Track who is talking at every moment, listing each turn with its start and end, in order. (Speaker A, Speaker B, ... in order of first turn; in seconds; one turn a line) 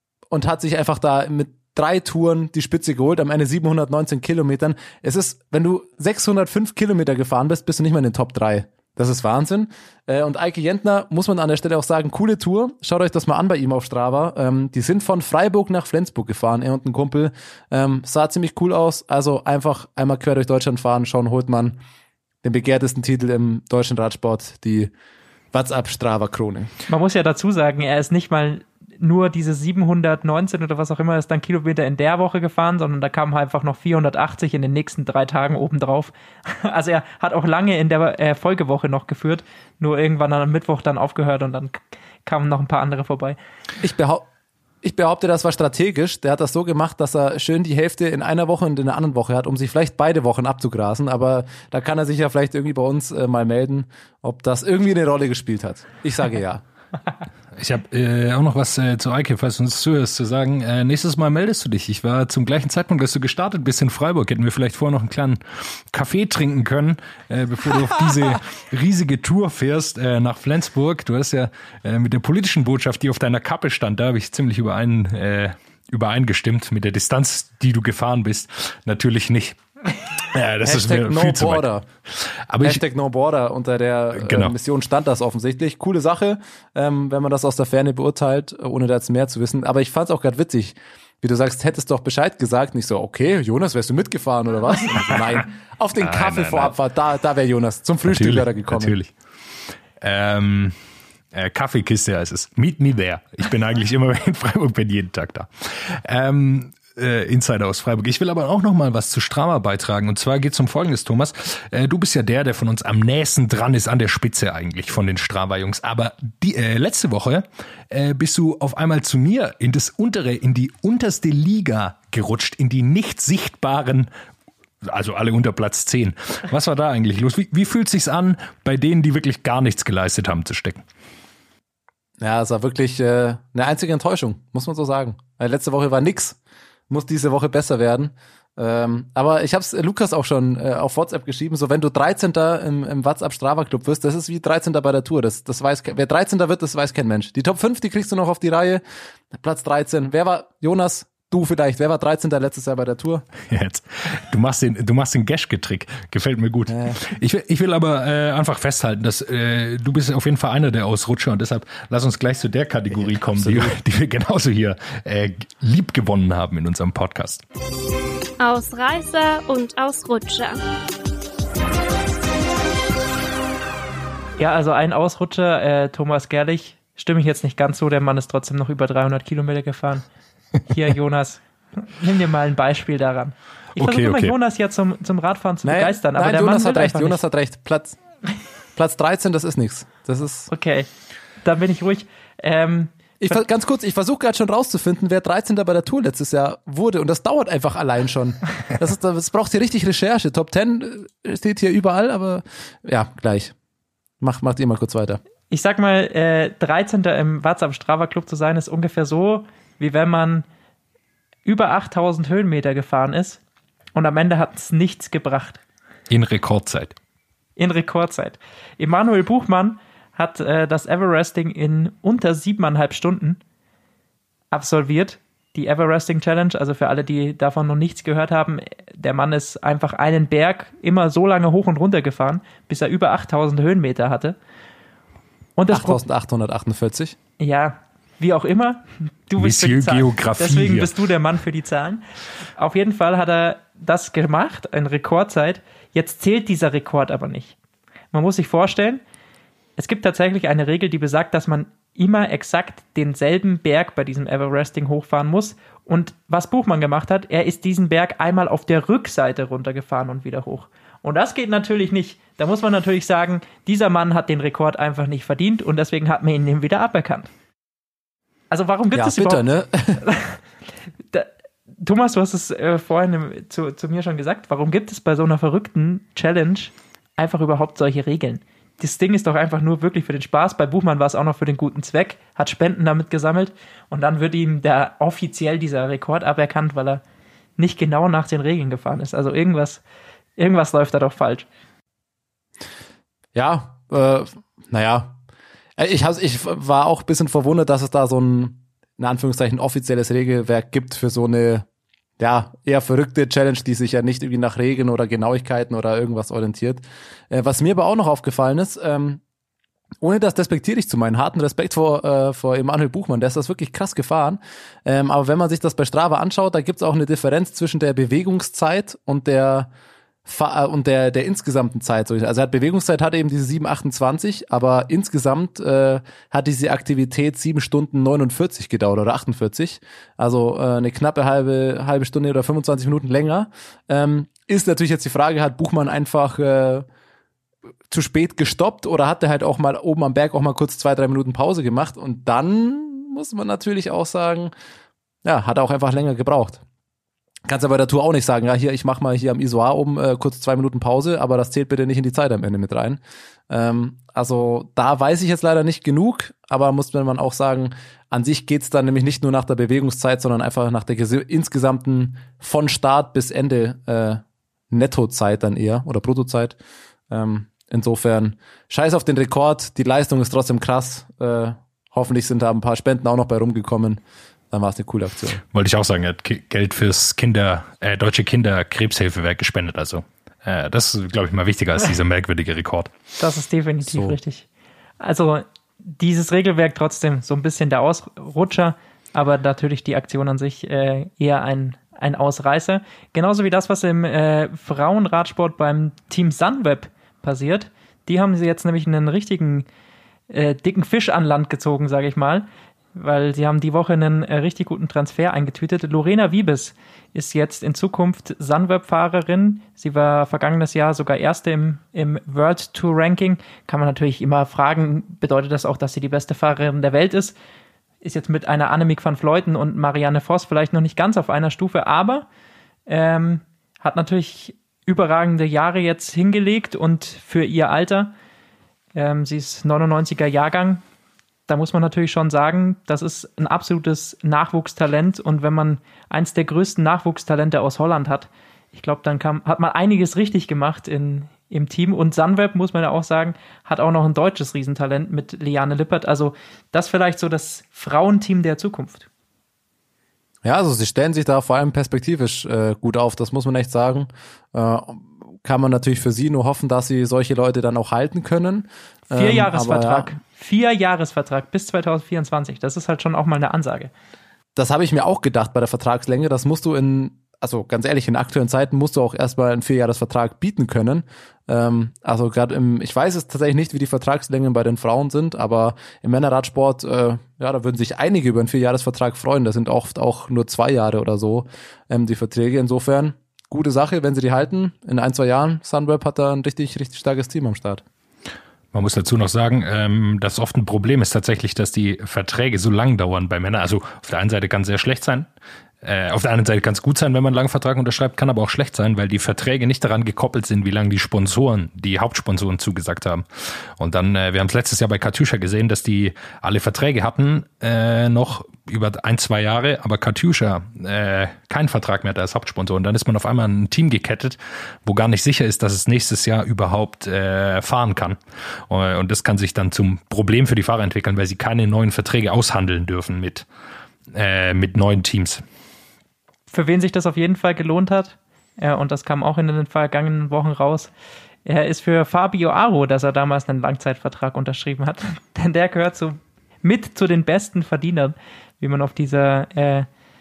Speaker A: 0.3-21.8
Speaker A: 22.4-24.9
Speaker A: 25.5-26.7
Speaker B: 26.9-43.4
Speaker A: 43.8-44.3
Speaker A: 44.8-56.6
Speaker C: 57.6-79.6
Speaker C: 80.2-82.8
Speaker A: 80.6-81.8
Speaker A: 82.6-99.0
Speaker C: 84.2-84.5
Speaker C: 96.0-96.8
Speaker C: 98.0-99.1
Speaker C: 100.0-100.8
Speaker C: 101.3-124.1
Speaker C: 124.8-130.8
Speaker A: 132.2-136.4
Speaker A: 136.9-153.3
Speaker C: 153.5-167.4
Speaker A: 156.7-157.0
Speaker A: 163.1-163.8
Speaker D: 168.4-170.6
Speaker B: 174.4-180.1
Speaker B: 180.7-187.2
Speaker C: 183.8-184.3
Speaker A: 185.6-188.0
Speaker A: 188.8-190.5
Speaker B: 190.5-190.9
Speaker B: 191.4-193.4
Speaker A: 193.2-203.5
Speaker A: 204.2-205.2
Speaker B: 205.5-210.4
Speaker B: 211.4-213.4
Speaker B: 213.9-215.6
Speaker C: 216.1-217.0
Speaker B: 217.6-223.4
Speaker B: 224.5-234.4
Speaker B: 235.6-236.0
Speaker A: 235.7-237.2
Speaker B: 237.4-242.1
Speaker C: 239.4-240.9
Speaker B: 242.6-247.6
Speaker B: 248.1-249.0
Speaker B: 249.8-267.3
Speaker B: 268.5-270.4
Speaker A: 268.9-270.1
Speaker B: 271.1-287.0
Speaker B: 287.6-289.8
Speaker B: 290.4-291.5
Speaker A: 293.3-295.2
Speaker A: 295.8-301.7
Speaker A: 302.2-309.2
Speaker A: 310.0-319.7
Speaker A: 320.2-336.9
Speaker A: 337.9-344.5
Speaker A: 345.2-346.6
Speaker A: 347.5-366.6
Speaker A: 367.1-374.0
Speaker A: 374.5-375.4
Speaker C: 375.5-382.9
Speaker B: 383.2-384.5
Speaker A: 383.9-384.2
Speaker B: 385.0-399.7
Speaker B: 400.3-417.4
Speaker B: 418.0-422.3
Speaker B: 422.9-428.1
Speaker B: 428.9-430.8
Speaker B: 431.5-449.1
Speaker A: 450.4-460.1
Speaker B: 459.1-463.9
Speaker A: 464.6-487.8
Speaker C: 488.7-495.3
Speaker C: 495.8-518.2
Speaker C: 518.7-523.5
Speaker C: 524.1-525.4
Speaker B: 526.5-530.9
Speaker B: 531.5-539.9